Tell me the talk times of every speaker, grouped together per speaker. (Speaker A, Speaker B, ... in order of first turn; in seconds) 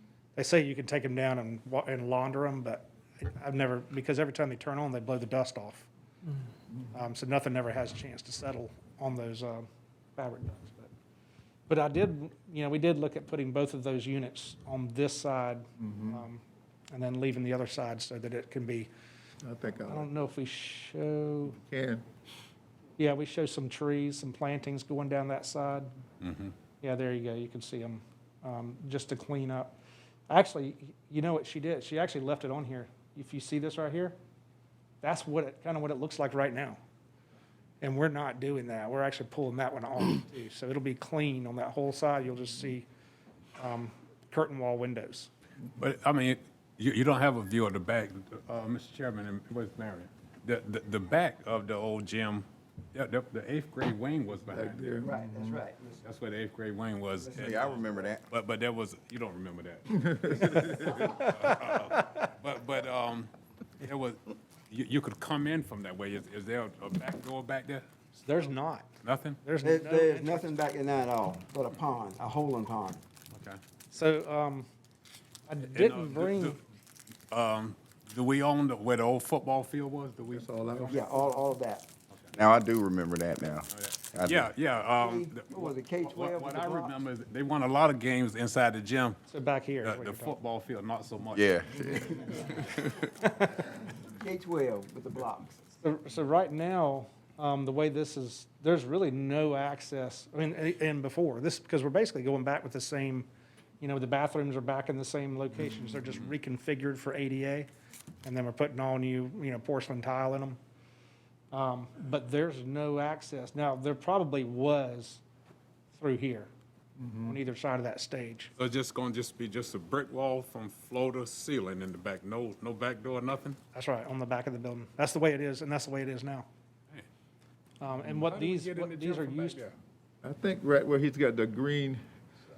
Speaker A: 0.3-5.9, 6.9-10.9, 11.7-18.9, 19.9-21.6, 23.0-25.9, 26.8-29.7, 30.3-34.1, 35.0-36.8, 37.8-42.9, 43.6-45.3, 68.2-68.9, 69.4-70.5, 73.9-74.7, 75.5-76.6, 89.3-90.3, 93.2-93.7, 95.8-103.3, 103.8-107.7, 108.2-110.6, 111.5-115.2, 115.9-116.5, 117.2-118.5, 123.7-126.5, 127.8-129.6
Speaker B: 15.8-16.2, 19.4-20.1, 21.5-22.0, 54.5-55.6, 59.9-61.0, 80.3-81.1, 117.0-117.4, 130.2-132.0
Speaker C: 26.2-26.5, 45.8-55.0, 56.0-67.9, 69.0-69.4, 73.3-73.6, 75.6-76.6, 77.3-81.0, 83.7-89.2, 89.8-92.7, 118.6-123.6, 128.2-129.7
Speaker D: 55.0-56.0, 69.6-73.0, 80.9-81.9, 85.0-87.0, 94.2-95.6
Speaker E: 57.4-58.2, 82.3-84.5, 91.3-93.0